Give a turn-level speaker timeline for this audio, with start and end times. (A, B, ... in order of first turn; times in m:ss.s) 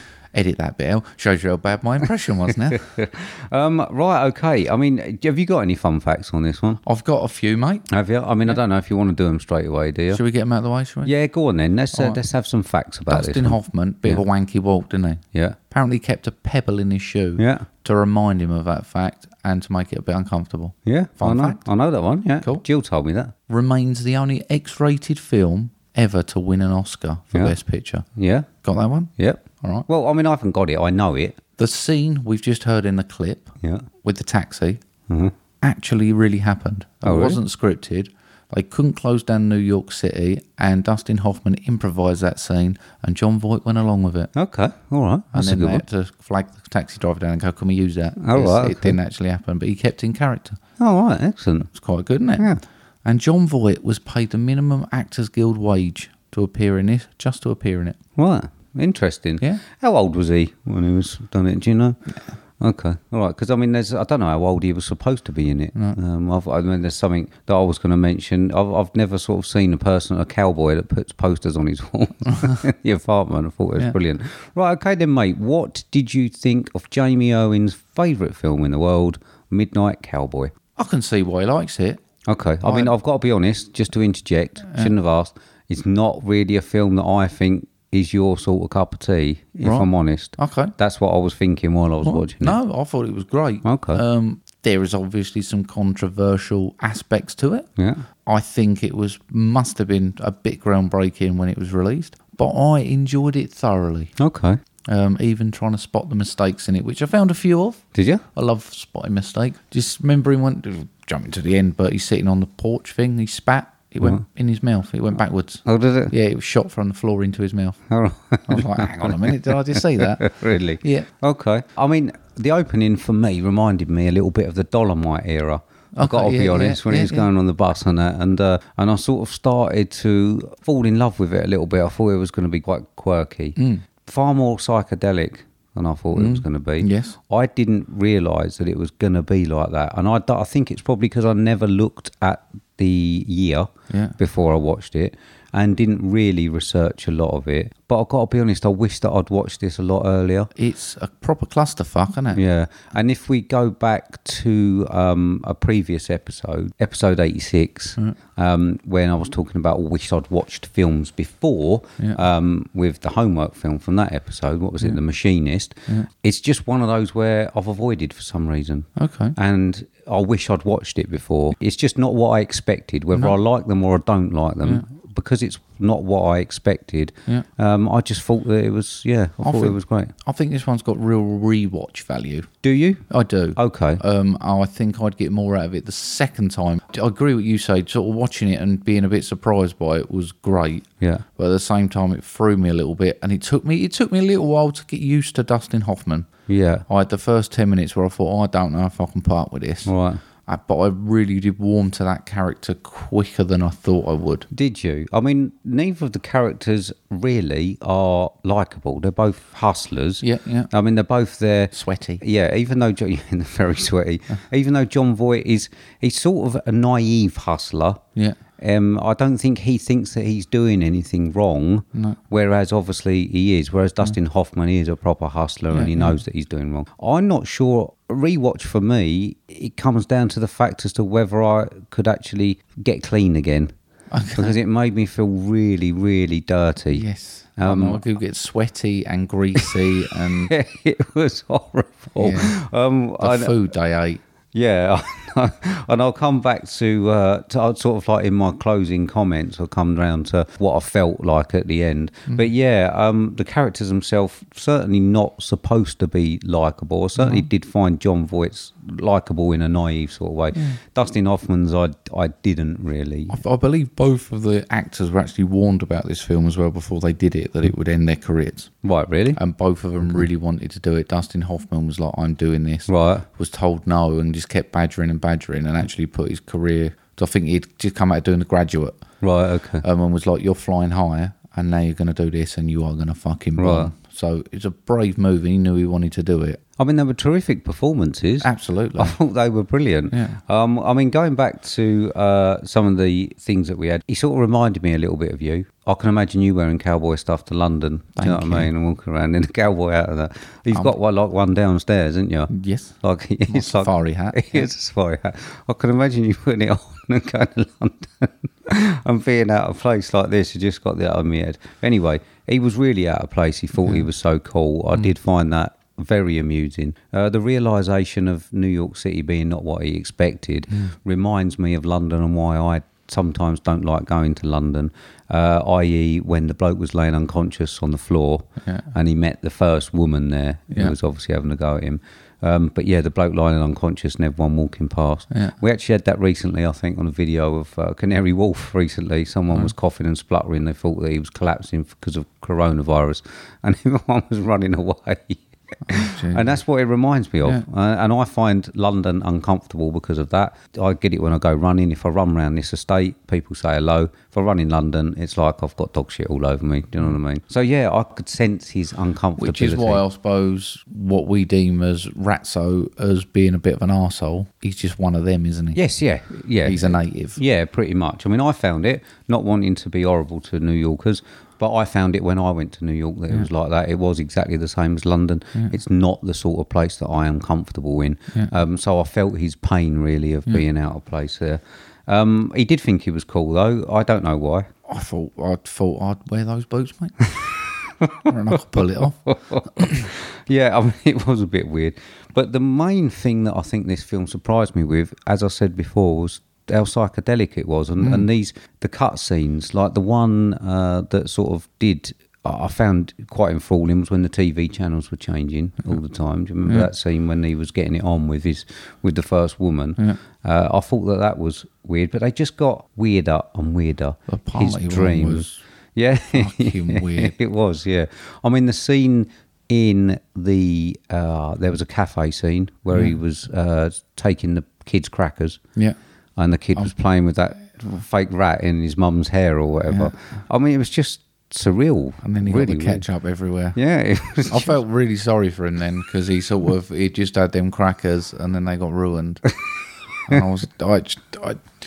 0:00.3-0:02.8 A
0:02.7-0:06.8 B
0:06.8-0:07.8 A
0:07.9-0:10.2 B
0:10.1-0:11.1 A
0:11.0-0:14.2 B
0:11.9-0:12.2 A
0:13.1-0:21.6 A
0:17.4-0:17.7 B
0:20.8-0:23.3 B
0:23.5-0:28.0 A
0:28.2-0:28.5 B
0:28.6-0:29.8 A
0:29.2-0:31.4 B
0:31.6-0:34.8 A
0:35.1-0:35.3 B
0:35.6-0:44.3 A
0:37.0-0:37.4 B
0:44.3-0:45.8 B
0:45.3-0:50.6 A
0:48.2-0:49.0 B
0:50.8-0:51.7 B
0:51.7-0:58.0 A
0:58.2-1:02.0 B
1:02.6-1:20.5 B
1:20.8-1:22.0 A
1:22.3-1:32.6 B
1:22.6-1:22.9 A
1:29.6-1:30.7 A
1:32.0-1:37.7 A
1:33.6-1:34.0 B
1:37.8-1:38.0 B
1:38.2-1:44.1 A
1:44.2-1:44.6 B
1:44.9-1:47.8 A
1:47.9-1:48.2 B
1:48.3-1:57.8 A
1:55.6-1:56.1 B
1:57.9-2:30.5 B
1:58.5-2:00.3 A
2:00.8-2:01.1 A
2:05.9-2:07.3 A
2:13.6-2:13.8 A
2:16.1-2:17.2 A
2:23.9-2:24.2 A
2:30.5-2:32.4 A
2:32.3-3:00.1 B
2:49.0-2:49.3 A
2:59.4-3:02.5 A
3:02.6-3:03.0 B
3:03.1-3:16.3 A
3:03.6-3:04.0 B
3:16.5-3:16.8 B
3:16.9-3:19.9 A
3:19.8-3:20.2 B
3:20.4-3:24.5 A
3:24.5-3:38.0 B
3:30.2-3:30.7 A
3:31.7-3:32.2 A
3:38.6-3:53.7 B
3:45.7-3:46.2 A
3:54.1-3:54.6 A
3:54.4-3:57.0 B
3:56.9-4:00.5 A
3:57.6-3:58.0 B
4:00.3-4:03.6 B
4:02.2-4:02.5 A
4:03.2-4:04.2 A
4:04.5-4:23.4 B
4:17.2-4:17.5 A
4:23.3-4:28.7 A
4:28.8-4:29.4 B
4:29.3-4:39.0 A
4:32.9-4:33.2 B
4:39.2-4:39.8 B
4:39.8-4:46.6 A
4:43.6-4:43.9 B
4:46.8-5:02.5 B
4:48.4-4:49.2 A
4:50.1-4:50.4 A
4:58.2-4:58.7 A
5:02.5-5:02.9 A
5:03.0-6:00.0 B
5:03.5-5:04.7 A
5:35.3-5:35.6 A
5:45.9-5:46.5 A
5:59.4-6:05.8 A
6:05.7-6:24.7 B
6:06.6-6:07.4 A
6:24.8-6:27.2 A
6:28.0-7:05.6 B
6:28.2-6:29.2 A
6:38.0-6:38.2 A
6:54.3-6:55.6 A
6:56.3-6:57.3 A
7:06.4-7:13.0 B
7:12.2-7:13.8 A
7:13.7-7:14.8 B
7:14.5-7:19.4 A
7:20.3-7:21.7 A